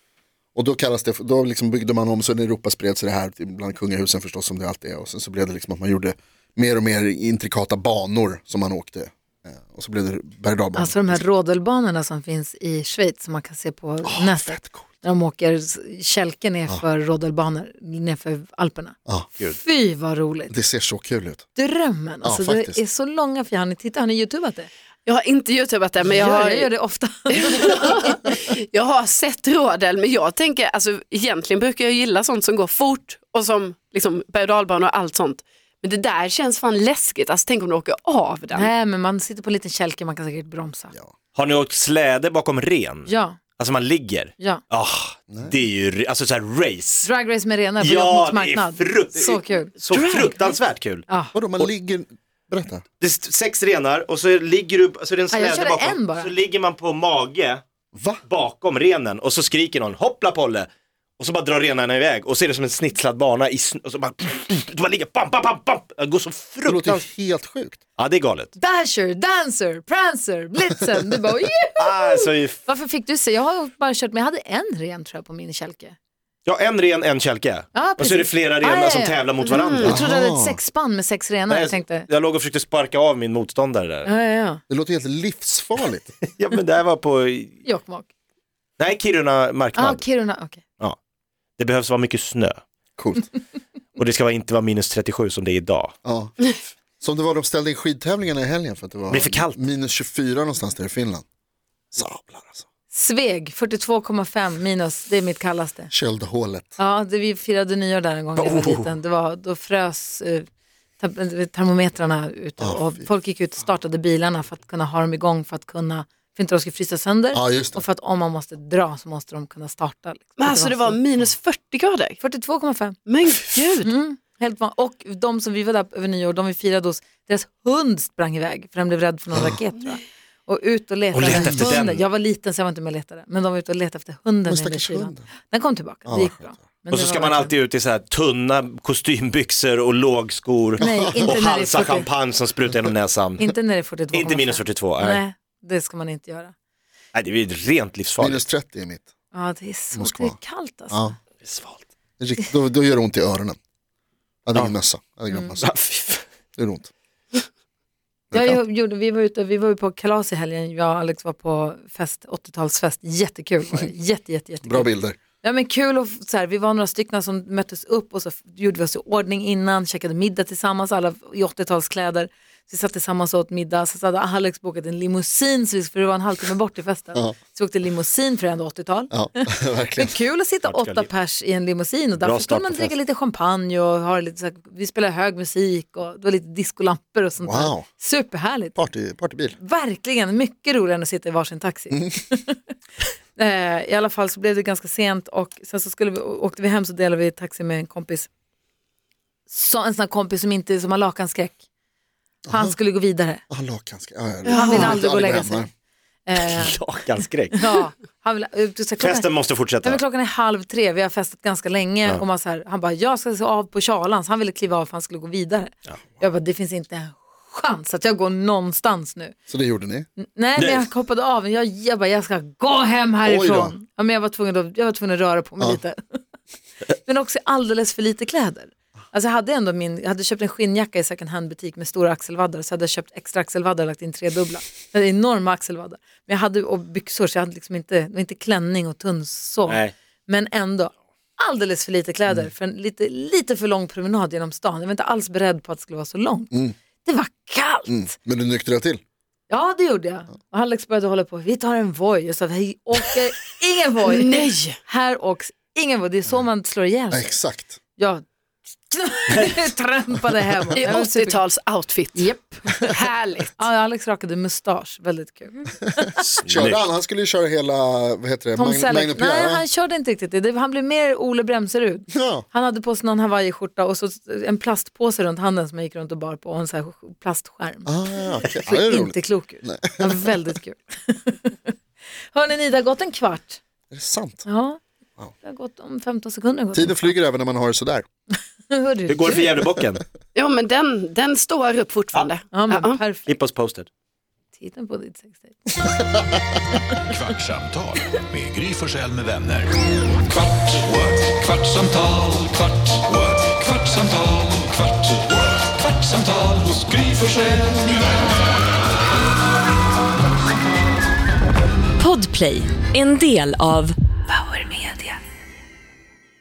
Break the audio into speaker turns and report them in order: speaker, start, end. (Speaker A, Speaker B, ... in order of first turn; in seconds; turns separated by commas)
Speaker A: 0.6-11.2, Speaker B: 10.8-20.5, Speaker A: 14.1-14.8, Speaker A: 20.5-21.5, Speaker B: 21.6-24.7, Speaker A: 22.2-22.8, Speaker C: 25.1-26.7, Speaker B: 26.1-27.8, Speaker C: 27.3-38.7, Speaker B: 38.5-40.9, Speaker D: 41.4-47.1, Speaker B: 43.1-43.4, Speaker A: 45.3-45.6, Speaker B: 47.0-49.8, Speaker D: 47.8-51.0, Speaker C: 49.9-50.6, Speaker B: 51.1-51.4, Speaker A: 51.3-52.8, Speaker D: 53.0-57.6, Speaker B: 55.3-56.3, Speaker A: 57.9-58.2, Speaker D: 58.2-60.7, Speaker D: 61.2-67.0, Speaker A: 66.7-67.8, Speaker D: 68.0-68.5, Speaker B: 68.6-76.0, Speaker D: 71.8-72.6, Speaker D: 76.5-80.0, Speaker B: 77.7-79.3, Speaker C: 79.4-80.0, Speaker B: 79.8-82.1, Speaker A: 79.9-80.6, Speaker D: 81.5-84.1, Speaker B: 84.0-84.6, Speaker A: 84.7-86.1, Speaker D: 86.3-87.6, Speaker B: 87.6-88.1, Speaker D: 88.8-90.0, Speaker B: 89.8-90.6, Speaker D: 91.6-92.6, Speaker A: 93.0-93.3, Speaker D: 94.0-95.9, Speaker A: 96.0-96.5, Speaker A: 97.0-101.2, Speaker D: 99.1-99.6, Speaker A: 101.9-102.7, Speaker B: 102.9-105.9, Speaker A: 105.9-106.8, Speaker B: 106.8-110.5, Speaker D: 108.4-108.9, Speaker B: 111.0-121.0, Speaker A: 112.6-113.1, Speaker A: 117.3-117.8, Speaker C: 120.4-122.2, Speaker B: 122.2-123.0, Speaker C: 123.1-123.9, Speaker B: 123.8-137.6, Speaker A: 129.3-129.6, Speaker D: 131.1-132.0, Speaker A: 131.2-131.7, Speaker A: 134.5-135.3, Speaker A: 136.1-136.6, Speaker D: 136.9-143.6, Speaker A: 140.8-141.4, Speaker B: 140.8-142.1, Speaker B: 143.4-146.5, Speaker D: 144.1-145.2, Speaker D: 147.1-148.5, Speaker A: 148.2-149.1, Speaker B: 149.3-151.1, Speaker A: 149.9-150.4, Speaker A: 150.9-151.2, Speaker D: 151.4-151.8, Speaker A: 152.2-153.6, Speaker A: 154.5-155.7, Speaker D: 155.6-156.2, Speaker A: 156.6-156.9, Speaker A: 158.3-158.6, Speaker B: 158.3-188.8, Speaker A: 164.6-165.2, Speaker A: 179.1-180.2, Speaker D: 180.7-181.1, Speaker D: 182.2-182.9, Speaker A: 187.4-187.9, Speaker A: 188.8-189.6, Speaker B: 189.6-192.6, Speaker B: 193.3-198.3, Speaker B: 199.5-201.6, Speaker A: 202.5-202.8, Speaker B: 202.5-203.4, Speaker A: 203.5-205.7, Speaker C: 204.5-204.9, Speaker B: 204.6-205.7, Speaker B: 206.3-206.8, Speaker D: 206.4-207.7, Speaker B: 207.5-219.4, Speaker D: 209.0-210.0, Speaker A: 219.5-220.1, Speaker B: 220.2-226.2, Speaker D: 220.6-220.9, Speaker A: 223.2-223.8, Speaker B: 226.9-246.5, Speaker D: 239.7-239.9, Speaker B: 247.0-248.1, Speaker A: 247.9-249.0, Speaker B: 249.5-257.4, Speaker C: 254.1-254.8, Speaker A: 257.1-257.8, Speaker B: 258.0-258.2, Speaker B: 258.9-261.4, Speaker D: 259.3-259.6, Speaker C: 260.7-262.3, Speaker B: 262.1-262.9, Speaker C: 262.9-263.6, Speaker B: 263.6-266.1, Speaker D: 266.2-266.8, Speaker A: 266.5-269.6, Speaker B: 268.6-278.0, Speaker A: 272.1-272.4, Speaker A: 277.9-280.5, Speaker B: 278.5-281.8, Speaker B: 282.3-283.6, Speaker A: 283.9-284.5, Speaker B: 284.5-284.8, Speaker B: 285.4-287.1, Speaker A: 286.7-288.1, Speaker B: 288.7-289.6, Speaker D: 289.1-290.1, Speaker C: 290.4-293.0, Speaker B: 292.5-293.4, Speaker D: 293.3-293.9, Speaker B: 294.5-295.9, Speaker E: 297.1-299.7, Speaker E: 301.8-302.1, Speaker E: 303.1-303.3, Speaker F: 312.0-315.1